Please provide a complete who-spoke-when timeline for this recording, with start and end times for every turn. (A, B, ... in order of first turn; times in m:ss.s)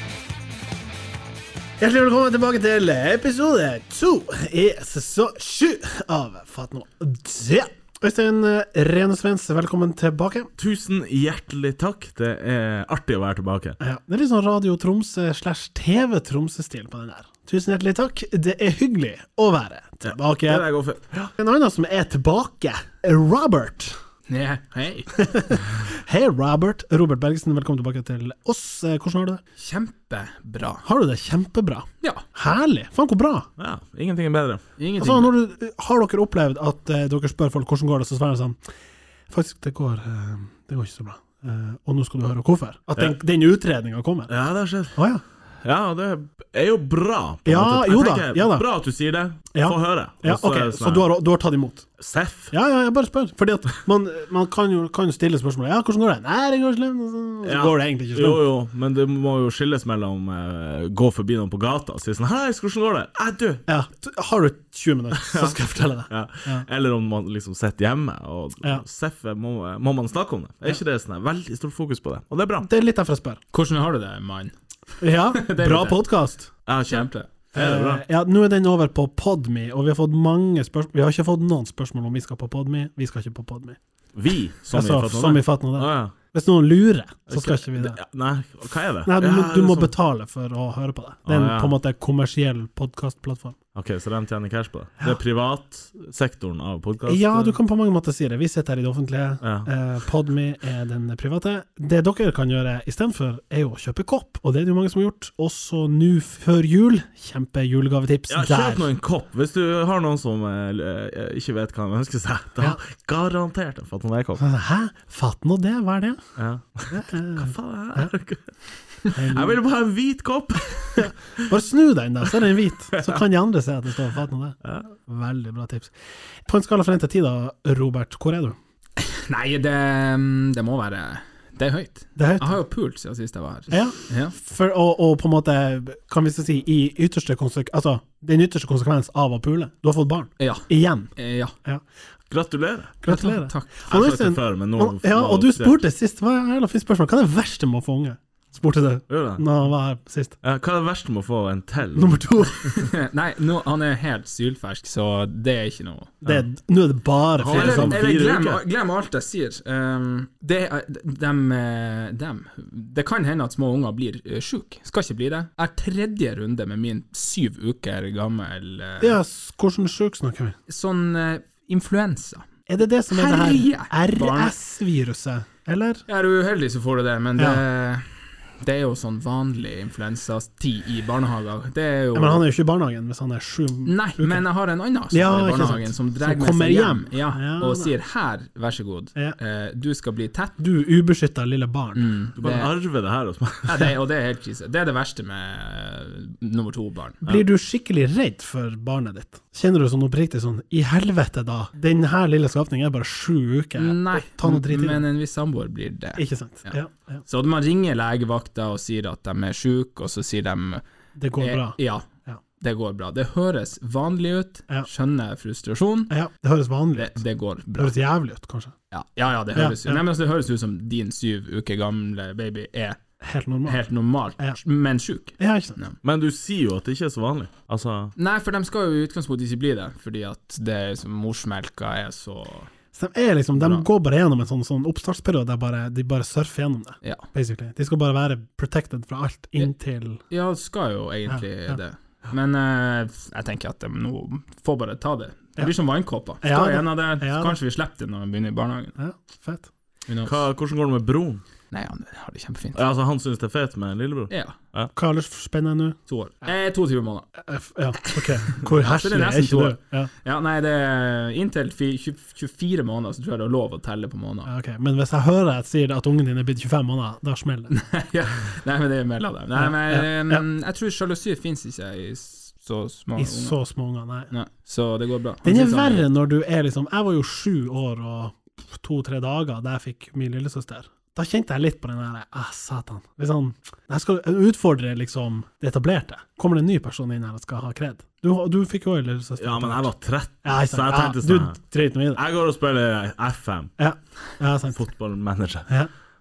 0:01.8-0:10.5 A
0:10.6-0:13.8 B
0:13.8-0:20.6 A
0:20.0-0:21.3 B
0:21.4-0:24.0 A
0:24.3-0:25.1 C
0:25.2-0:29.4 A
0:29.6-0:30.8 C
0:30.8-0:33.5 A
0:33.6-0:34.6 B
0:34.8-0:35.3 C
0:35.0-0:38.6 A
0:39.3-0:44.3 A
0:44.3-0:45.0 B
0:44.9-0:45.2 A
0:45.6-0:51.0 B
0:47.4-0:48.6 A
0:49.5-0:51.8 A
0:52.0-0:52.5 B
0:52.5-0:58.4 A
0:57.4-1:03.6 B
1:03.7-1:06.6 A
1:05.1-1:12.7 B
1:12.6-1:13.4 A
1:13.5-1:14.5 C
1:15.0-1:16.5 A
1:15.3-1:16.0 C
1:16.7-1:18.0 B
1:16.8-1:17.3 C
1:17.5-1:23.8 A
1:24.1-1:26.1 B
1:24.7-1:28.0 A
1:27.3-1:29.9 B
1:29.0-1:33.6 A
1:31.2-1:31.7 B
1:33.7-1:37.6 B
1:37.0-1:48.9 A
1:39.4-1:39.7 B
1:48.3-1:54.4 B
1:54.4-1:56.2 A
1:56.4-1:58.5 B
1:56.9-1:58.1 A
1:59.0-2:01.4 B
1:59.1-1:59.6 A
2:01.0-2:05.9 A
2:02.9-2:03.2 B
2:06.4-2:08.6 A
2:09.0-2:14.3 C
2:12.2-2:12.6 A
2:13.7-2:21.1 A
2:20.4-2:21.5 C
2:22.3-2:22.9 B
2:23.0-2:30.4 A
2:23.1-2:23.9 C
2:23.9-2:25.8 B
2:29.1-2:29.4 B
2:30.4-2:32.2 B
2:31.9-2:32.9 A
2:32.6-2:36.4 C
2:36.2-2:38.0 A
2:37.4-2:38.6 B
2:37.5-2:49.2 C
2:49.0-2:50.6 A
2:50.7-2:52.4 C
2:52.7-2:56.0 A
2:53.1-2:54.5 C
2:56.1-3:02.4 C
2:57.4-2:57.6 A
3:02.1-3:04.4 A
3:03.8-3:10.6 C
3:05.1-3:07.9 A
3:10.6-3:12.1 A
3:11.9-3:12.7 C
3:12.4-3:13.8 B
3:13.6-3:17.2 C
3:17.2-3:25.0 A
3:23.8-3:26.7 C
3:26.2-3:27.2 A
3:27.2-3:30.8 C
3:31.2-3:32.4 A
3:31.4-3:32.1 C
3:32.6-3:36.1 C
3:36.1-3:37.2 A
3:36.9-3:37.9 C
3:37.8-3:38.7 A
3:38.9-3:43.0 C
3:39.5-3:40.0 A
3:43.2-3:43.8 A
3:43.6-3:46.0 C
3:45.4-3:45.8 A
3:46.0-3:48.1 B
3:48.2-3:52.7 C
3:52.9-4:00.2 A
3:53.6-3:53.8 C
4:00.3-4:08.9 C
4:01.3-4:01.8 A
4:06.4-4:07.6 A
4:09.0-4:09.7 A
4:10.1-4:10.4 C
4:10.2-4:11.4 B
4:11.7-4:12.8 C
4:12.7-4:14.9 B
4:14.3-4:14.6 C
4:14.9-4:16.0 A
4:16.1-4:17.3 C
4:17.4-4:20.1 A
4:18.0-4:24.5 C
4:24.4-4:27.7 A
4:27.7-4:33.6 C
4:29.5-4:30.4 A
4:33.2-4:34.3 A
4:34.3-4:36.1 C
4:35.4-4:49.9 A
4:49.4-4:51.6 B
4:50.4-4:52.2 A
4:52.1-4:53.7 B
4:53.8-4:54.8 A
4:54.7-4:55.7 B